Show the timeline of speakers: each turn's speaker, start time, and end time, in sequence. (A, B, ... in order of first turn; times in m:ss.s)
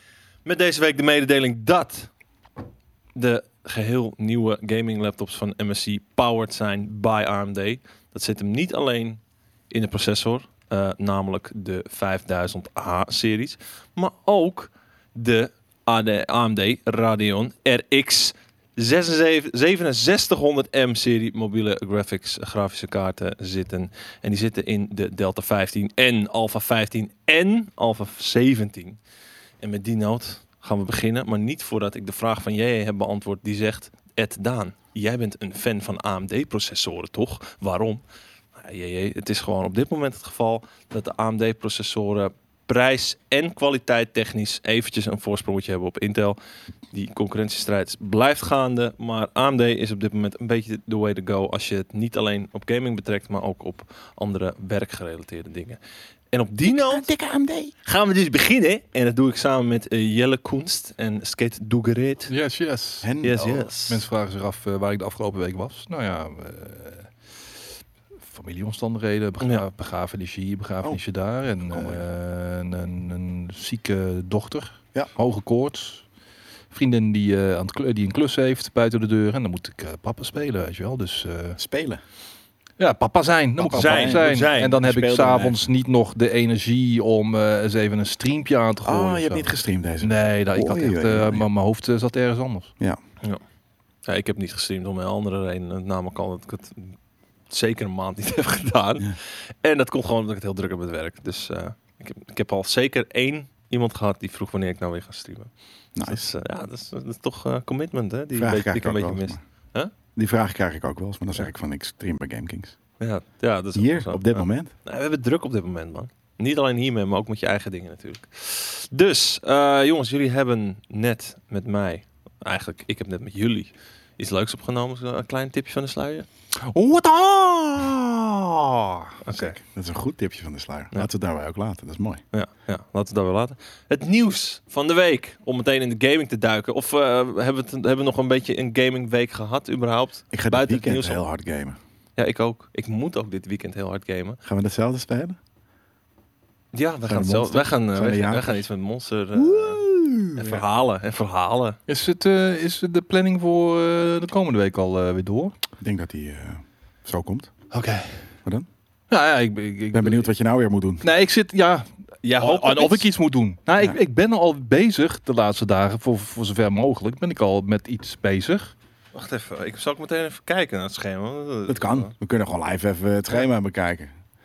0:00.4-0:02.1 A
0:03.1-0:29.0 A
0:29.6-0:38.0 A
0:38.6-0:46.4 A
0:46.9-0:55.8 A
0:56.3-0:57.1 A
0:56.7-0:57.7 B
0:57.8-1:02.3 A
1:02.3-1:03.1 C
1:03.0-1:03.7 B
1:03.2-1:04.0 A
1:03.9-1:07.1 C
1:08.3-1:16.0 C
1:11.7-1:12.0 B
1:16.7-1:21.6 C
1:21.6-1:22.0 B
1:22.8-1:29.5 C
1:23.6-1:25.7 B
1:23.7-1:25.0 A
1:28.8-1:31.4 B
1:30.0-1:32.7 C
1:34.0-1:37.0 A
1:37.5-1:49.9 A
1:45.9-1:46.3 B
1:48.3-1:49.4 B
1:50.1-1:52.8 B
1:53.0-2:06.3 A
1:53.7-1:54.7 B
2:06.6-2:09.1 C
2:09.2-2:09.6 A
2:09.3-2:12.2 B
2:12.3-2:21.2 A
2:20.3-2:21.8 B
2:22.2-2:24.4 A
2:24.4-2:25.4 B
2:26.7-2:31.8 A
2:27.1-2:28.6 B
2:29.3-2:30.6 B
2:31.9-2:35.5 C
2:35.8-2:37.5 B
2:37.7-2:38.2 C
2:39.1-2:40.3 C
2:39.9-2:41.0 B
2:41.0-2:48.7 C
2:42.2-2:43.1 A
2:49.1-2:52.1 A
2:51.7-2:54.1 B